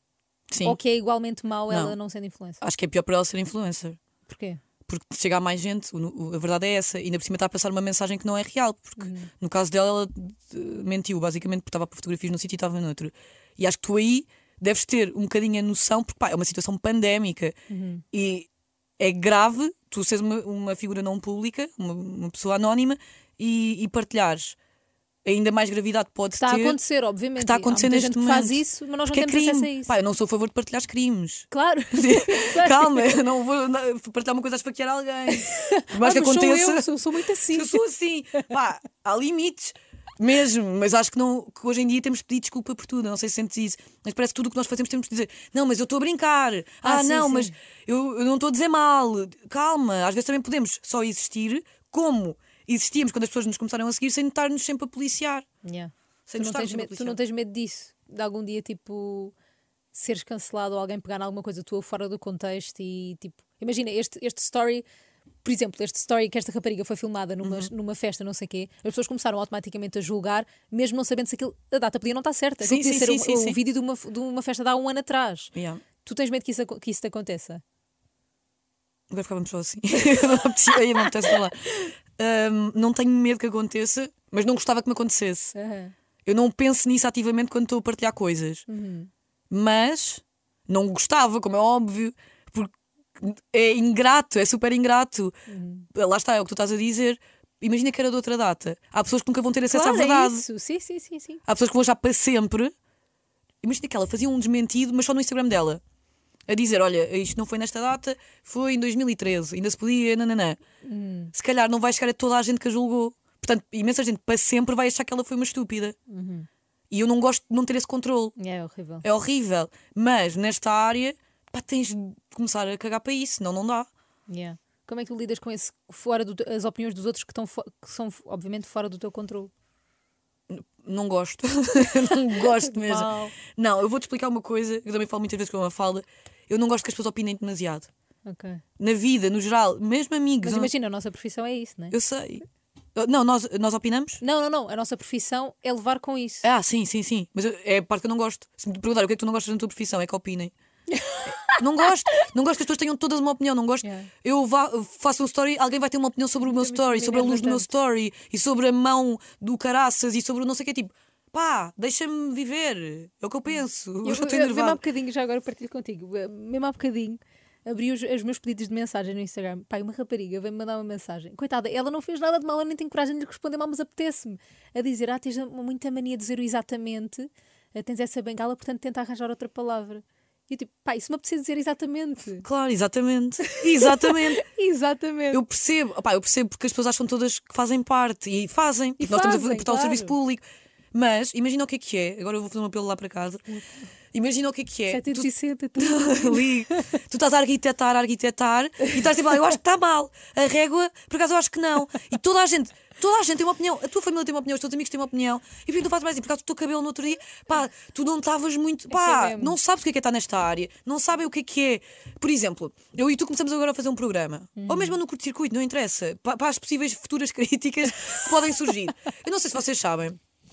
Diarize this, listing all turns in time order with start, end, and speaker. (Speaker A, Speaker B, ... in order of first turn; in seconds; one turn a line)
Speaker A: 0.5-0.8
Speaker B: 0.6-2.6
Speaker A: 1.7-1.9
Speaker A: 2.6-4.0
Speaker B: 4.3-4.6
Speaker A: 4.8-17.5
Speaker B: 9.0-9.3
Speaker B: 17.7-18.0
Speaker A: 18.1-18.5
Speaker A: 19.0-24.6
Speaker A: 25.2-26.8
Speaker B: 26.4-29.9
Speaker A: 27.4-36.9
Speaker B: 31.5-33.2
Speaker B: 35.3-37.8
Speaker A: 37.5-55.5
Speaker B: 46.8-47.5
Speaker B: 55.6-59.3
Speaker A: 56.3-57.2
Speaker B: 59.9-64.8
Speaker B: 65.4-75.5
Speaker A: 67.4-67.7
Speaker A: 72.6-73.6
Speaker A: 75.5-75.8
Speaker B: 76.0-77.6
Speaker A: 79.1-85.5
Speaker B: 81.2-81.9
Speaker B: 85.5-85.9
Speaker A: 86.2-88.7
Speaker B: 88.7-89.1
Speaker A: 89.5-95.3
Speaker B: 95.5-95.9
Speaker A: 95.9-100.4
Speaker B: 99.7-101.4
Speaker A: 101.5-102.7
Speaker A: 103.6-105.8
Speaker A: 106.5-110.6
Speaker B: 110.8-111.3
Speaker A: 111.3-116.0
Speaker B: 116.1-116.5
Speaker A: 116.9-118.3
Speaker B: 118.4-119.0
Speaker A: 119.0-123.9
Speaker B: 124.3-129.5
Speaker A: 130.5-137.9
Speaker B: 132.4-133.3
Speaker B: 138.2-138.6
Speaker A: 138.8-140.7
Speaker B: 140.4-141.9
Speaker A: 141.9-144.2
Speaker B: 144.2-146.5
Speaker A: 146.4-150.5
Speaker B: 150.9-151.6
Speaker A: 151.4-164.8
Speaker B: 153.8-154.1
Speaker B: 156.4-157.7
Speaker B: 164.0-182.5
Speaker A: 182.4-184.4
Speaker B: 183.5-185.4
Speaker A: 185.3-193.4
Speaker B: 189.0-190.1
Speaker B: 193.5-193.8
Speaker A: 194.1-220.2
Speaker B: 194.9-196.8
Speaker B: 208.9-209.6
Speaker B: 214.6-215.0